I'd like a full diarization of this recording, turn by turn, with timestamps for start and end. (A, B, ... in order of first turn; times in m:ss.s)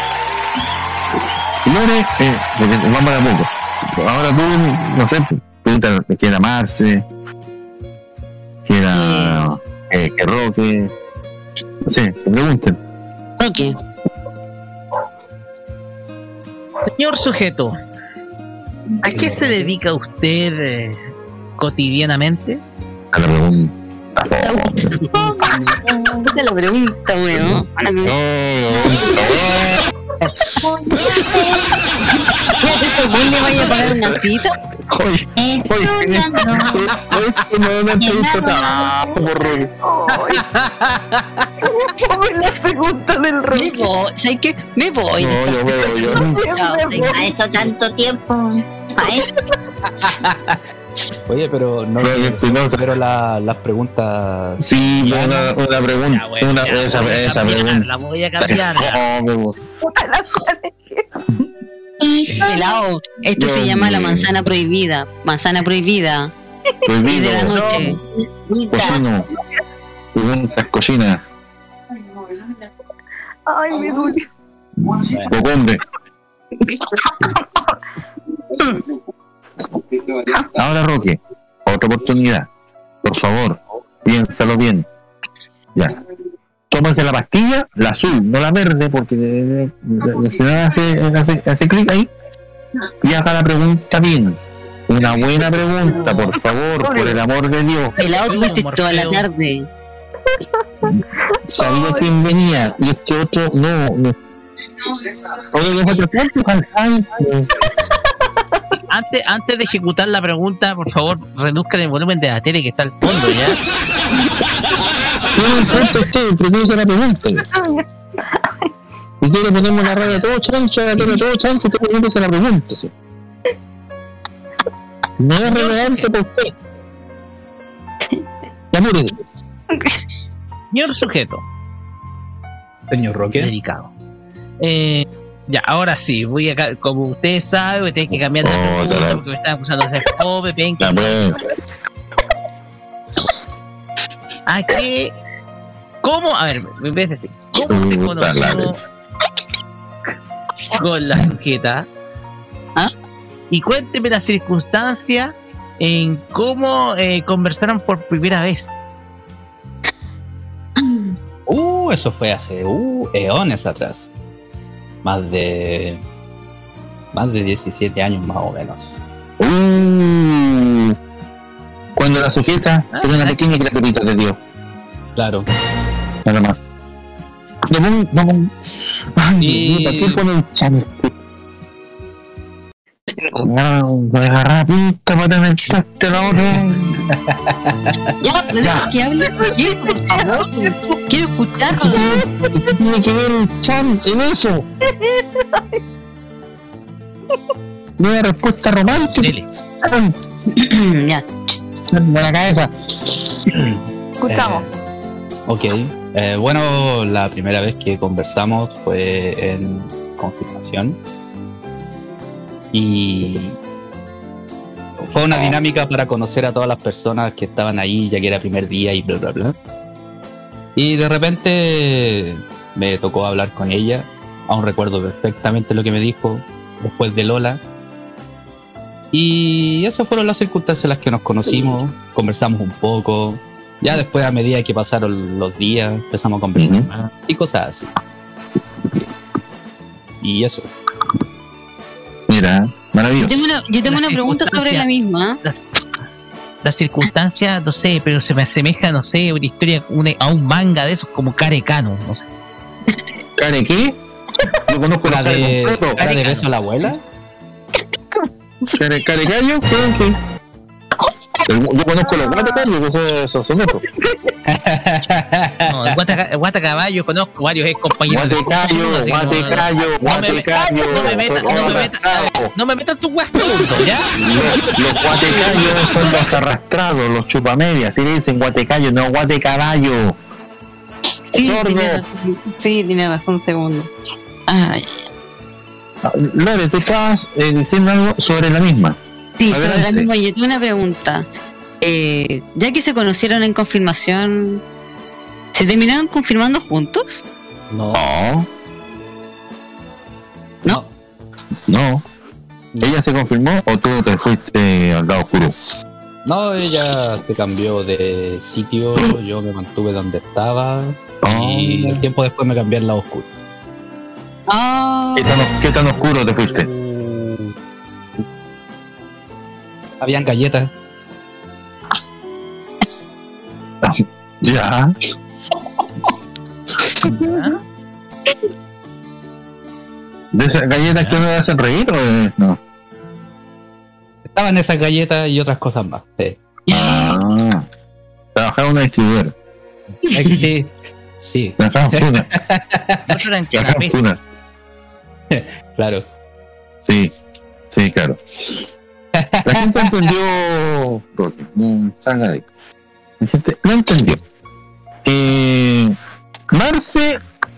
0:01.6-0:07.0 A
0:08.6-0:10.9 A
0:08.9-0:09.5 B
0:11.9-0:12.8 A
0:13.4-0:13.8 B
0:16.9-0:17.8 C
0:19.1-0:21.0 C
0:19.2-0:19.5 D
0:21.6-0:22.6 C
0:23.1-0:25.4 A
0:25.1-0:28.1 B
0:28.0-0:30.6 A
0:30.6-0:31.7 E
0:32.6-0:34.5 B
0:33.5-0:34.2 A
0:34.8-0:39.7 A
0:35.4-0:36.9 E
0:38.0-0:39.2 E
0:39.8-0:40.4 F
0:41.6-0:43.9 F
0:43.5-0:47.2 B
0:45.2-0:46.4 A
0:46.0-0:47.3 F
0:47.1-0:49.3 E
0:50.0-0:50.6 D
0:51.3-0:55.5 D
0:52.0-0:52.8 A
0:54.6-0:57.9 A
0:56.1-0:59.0 C
0:58.4-0:59.6 A
0:59.8-1:01.1 F
1:02.4-1:06.3 B
1:03.4-1:04.3 A
1:06.8-1:08.0 A
1:07.1-1:08.0 B
1:08.5-1:09.0 E
1:08.7-1:09.3 A
1:10.2-1:11.2 A
1:13.5-1:14.3 F
1:14.8-1:15.8 A
1:17.0-1:17.7 F
1:20.5-1:22.5 A
1:23.0-1:24.9 A
1:26.7-1:32.1 A
1:33.0-1:37.9 A
1:36.8-1:37.2 F
1:38.0-1:39.7 B
1:38.0-1:39.2 C
1:40.3-1:42.1 F
1:41.5-1:44.2 A
1:45.4-1:47.7 A
1:48.9-1:53.6 C
1:55.4-1:57.5 A
1:57.5-1:58.7 F
1:59.2-2:02.9 A
2:05.2-2:06.5 A
2:05.4-2:06.1 C
2:08.7-2:09.2 A
2:10.7-2:11.4 C
2:12.9-2:13.5 D
2:13.4-2:13.9 C
2:14.6-2:21.2 C
2:18.1-2:19.2 A
2:20.8-2:21.8 A
2:24.5-2:25.1 C
2:26.0-2:28.8 C
2:27.6-2:28.8 A
2:30.7-2:31.9 C
2:33.5-2:38.9 C
2:40.8-2:41.1 B
2:41.5-2:44.1 D
2:45.0-2:46.0 D
2:47.1-2:49.0 D
2:49.4-2:51.0 A
2:52.0-2:54.4 A
2:52.9-2:53.4 C
2:55.2-2:55.5 D
2:56.2-2:56.7 A
2:57.7-3:01.1 A
2:59.4-3:00.2 D
3:03.1-3:03.5 B
3:03.4-3:06.8 A
3:07.1-3:08.1 D
3:08.2-3:12.2 B
3:08.6-3:08.9 A
3:10.0-3:10.5 F
3:11.7-3:14.6 A
3:14.9-3:15.8 F
3:18.0-3:20.1 A
3:19.1-3:19.4 C
3:20.5-3:21.6 B
3:21.9-3:23.7 A
3:24.2-3:24.6 F
3:24.3-3:24.7 D
3:25.5-3:31.0 D
3:32.7-3:33.6 D
3:35.1-3:39.6 D
3:35.3-3:35.6 A
3:40.8-3:47.6 D
3:49.1-3:57.9 D
3:56.6-3:56.9 A
4:00.2-4:00.7 D
4:02.3-4:03.5 A
4:03.2-4:05.4 B
4:03.8-4:04.9 C
4:06.6-4:12.2 C
4:13.4-4:14.0 A
4:14.7-4:16.0 A
4:15.0-4:17.0 D
4:16.0-4:16.5 C
4:18.8-4:20.2 A
4:21.5-4:23.8 A
4:22.0-4:22.7 F
4:24.0-4:24.3 F
4:24.5-4:26.0 D
4:25.7-4:34.1 C
4:28.1-4:32.5 A
4:30.6-4:31.9 F
4:34.2-4:40.2 A
4:41.3-4:43.9 B
4:41.4-4:42.0 A
4:44.5-4:45.1 B
4:46.0-4:49.0 A
4:49.4-4:51.2 B
4:49.5-4:50.1 A
4:51.8-4:54.6 B
4:55.5-4:57.2 B
4:57.7-4:58.0 D
4:57.9-4:58.5 A
5:01.7-5:02.0 A
5:02.8-5:05.6 A
5:06.2-5:13.3 D
5:11.2-5:12.0 A
5:14.5-5:15.4 B
5:15.2-5:16.7 A
5:16.0-5:17.5 D
5:20.0-5:20.7 D
5:23.8-5:25.0 A
5:27.0-5:27.5 F
5:27.2-5:27.6 C
5:30.3-5:32.6 A
5:34.4-5:36.4 D
5:36.7-5:37.2 B
5:36.7-5:37.6 A
5:38.4-5:39.3 A
5:40.1-5:43.2 D
5:40.2-5:40.4 B
5:41.6-5:42.3 A
5:43.1-5:44.2 C
5:43.5-5:44.2 A
5:45.3-5:46.0 D
5:46.8-5:47.1 A
5:47.7-5:48.6 A
5:49.2-5:49.9 D
5:49.4-5:52.5 A
5:53.2-5:54.2 A
5:55.0-5:55.9 A
5:56.5-5:57.2 A